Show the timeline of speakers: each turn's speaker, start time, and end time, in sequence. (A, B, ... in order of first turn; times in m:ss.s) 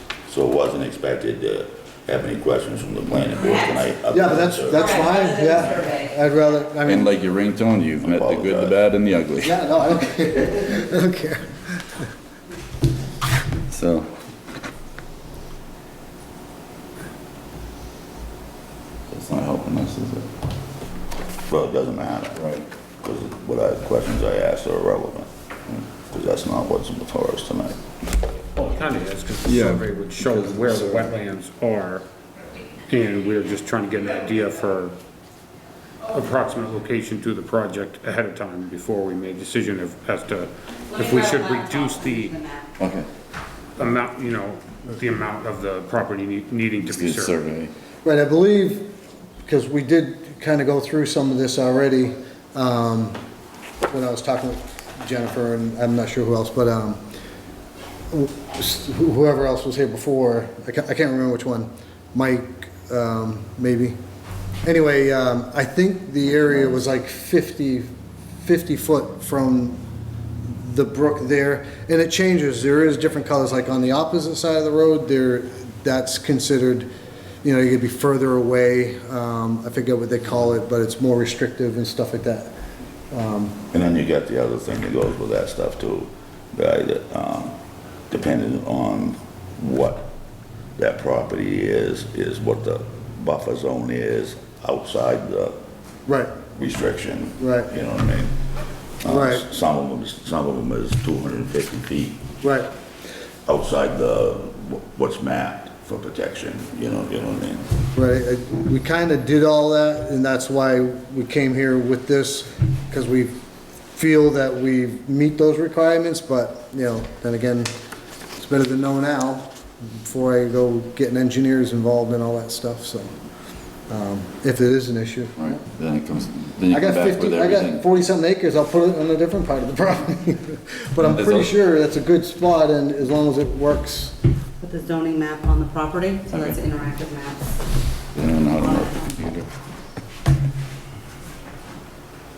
0:00.3-0:05.1 A
0:03.4-0:03.8 B
0:04.1-0:07.1 C
0:04.7-0:06.1 B
0:06.8-0:09.7 D
0:08.0-0:08.8 A
0:09.4-0:12.1 C
0:13.7-0:14.1 D
0:19.1-0:20.2 D
0:21.5-0:22.4 A
0:22.3-0:22.6 D
0:23.0-0:25.3 A
0:26.0-0:27.8 A
0:28.6-0:32.0 E
0:29.4-0:31.2 D
0:32.9-0:34.9 E
0:36.0-0:42.4 E
0:40.9-0:42.6 B
0:42.8-0:43.1 D
0:43.8-0:47.4 E
0:46.8-0:47.7 D
0:48.0-0:48.9 C
0:49.4-0:53.2 C
0:53.9-0:57.0 C
0:58.1-1:04.0 C
1:04.6-1:07.9 C
1:08.4-1:09.8 C
1:10.4-1:16.9 C
1:17.4-1:22.5 C
1:23.1-1:23.6 C
1:23.7-1:27.5 A
1:28.1-1:30.1 A
1:30.8-1:35.6 A
1:36.1-1:36.4 C
1:36.5-1:38.3 A
1:37.4-1:37.7 C
1:39.0-1:42.2 A
1:39.0-1:39.4 C
1:42.4-1:42.7 C
1:43.4-1:47.6 A
1:47.9-1:53.4 C
1:53.9-1:57.7 C
1:58.4-2:03.1 C
2:03.9-2:05.5 C
2:05.4-2:07.8 D
2:06.7-2:14.1 C
2:11.0-2:11.5 D
2:14.6-2:17.5 B
2:16.3-2:16.6 D
2:18.1-2:19.4 D
2:18.6-2:18.9 B